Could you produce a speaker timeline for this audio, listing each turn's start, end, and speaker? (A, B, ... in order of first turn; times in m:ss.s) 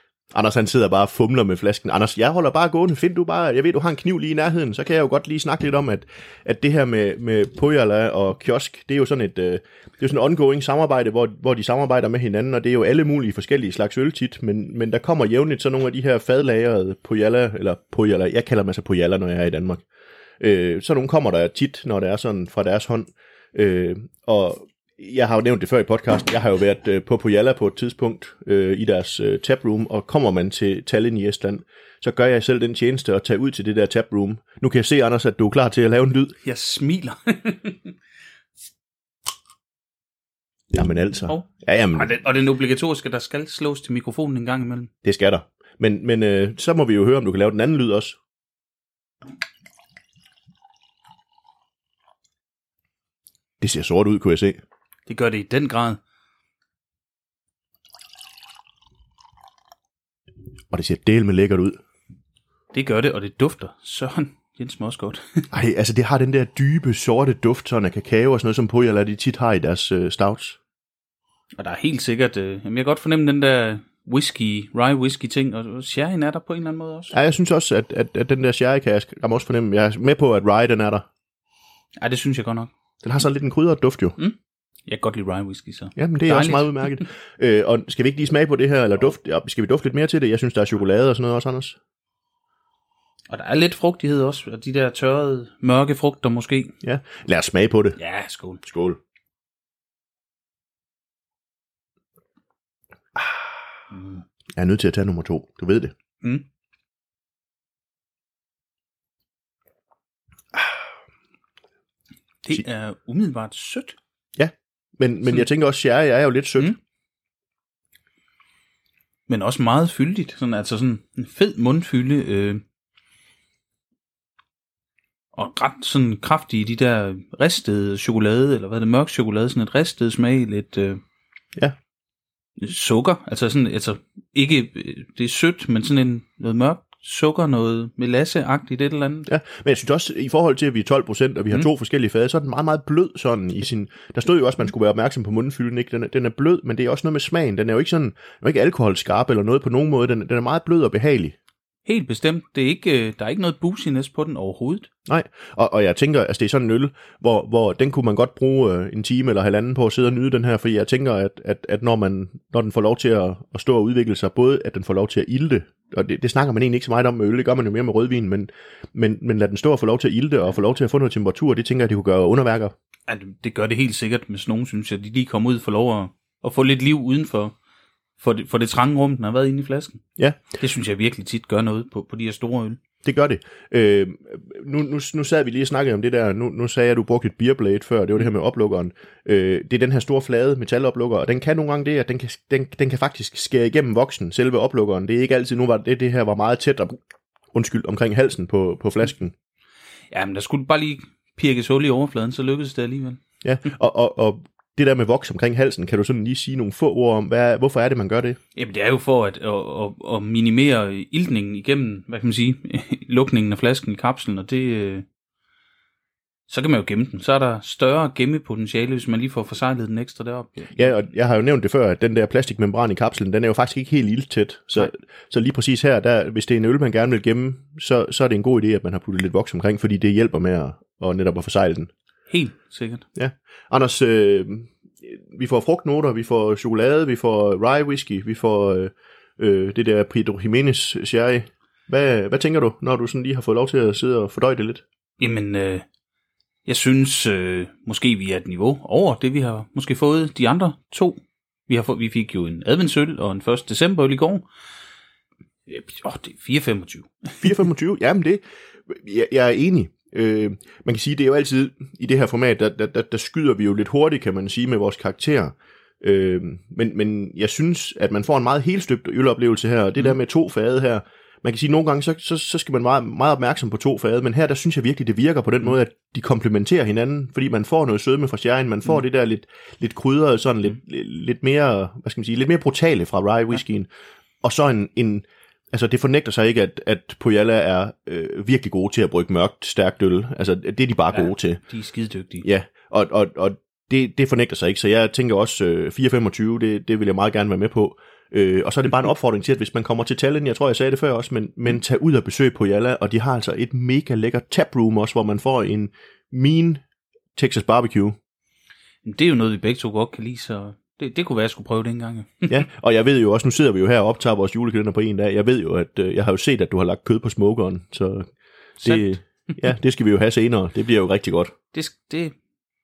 0:00.3-0:19.8 A
0:20.4-0:36.3 A
0:36.4-0:38.0 B
0:40.7-0:42.1 A
0:41.3-0:44.9 B
0:45.0-0:48.2 A
0:53.6-0:54.6 A
0:55.1-0:56.0 B
1:00.7-1:01.8 A
1:02.7-1:05.4 B
1:05.5-1:10.6 A
1:11.6-1:17.2 B
1:17.1-1:21.0 A
1:22.0-1:22.7 B
1:23.0-1:24.2 A
1:24.2-1:27.0 B
1:26.0-1:31.8 A
1:33.3-1:36.7 B
1:36.8-1:38.0 A
1:38.0-1:38.6 B
1:38.6-1:39.0 A
1:43.9-1:44.2 B
1:44.6-1:45.9 A
1:46.2-1:46.4 B
1:52.4-1:54.0 B
1:54.4-1:56.7 A
1:59.3-2:02.6 B
2:05.3-2:11.0 B
2:12.6-2:19.3 B
2:19.3-2:31.3 A
2:31.8-2:34.9 B
2:35.1-2:52.7 A
2:53.1-2:57.6 B
2:58.2-3:00.0 B
3:00.6-3:02.8 B
3:03.0-3:17.0 A
3:17.5-3:19.3 A
3:20.1-3:23.2 B
3:23.4-3:28.4 A
3:28.6-3:35.0 B
3:36.5-3:40.9 B
3:40.8-3:51.9 A
3:52.3-3:53.0 B
3:53.2-4:04.8 A
4:05.2-4:05.8 B
4:06.6-4:14.4 B
4:15.7-4:17.3 B
4:17.4-4:43.9 A
4:44.4-4:51.6 A
4:51.1-4:52.4 B
4:52.4-5:06.8 A
5:07.3-5:08.2 A
5:09.0-5:12.6 B
5:12.5-5:18.3 A
5:18.8-5:21.5 A
5:21.7-5:22.3 B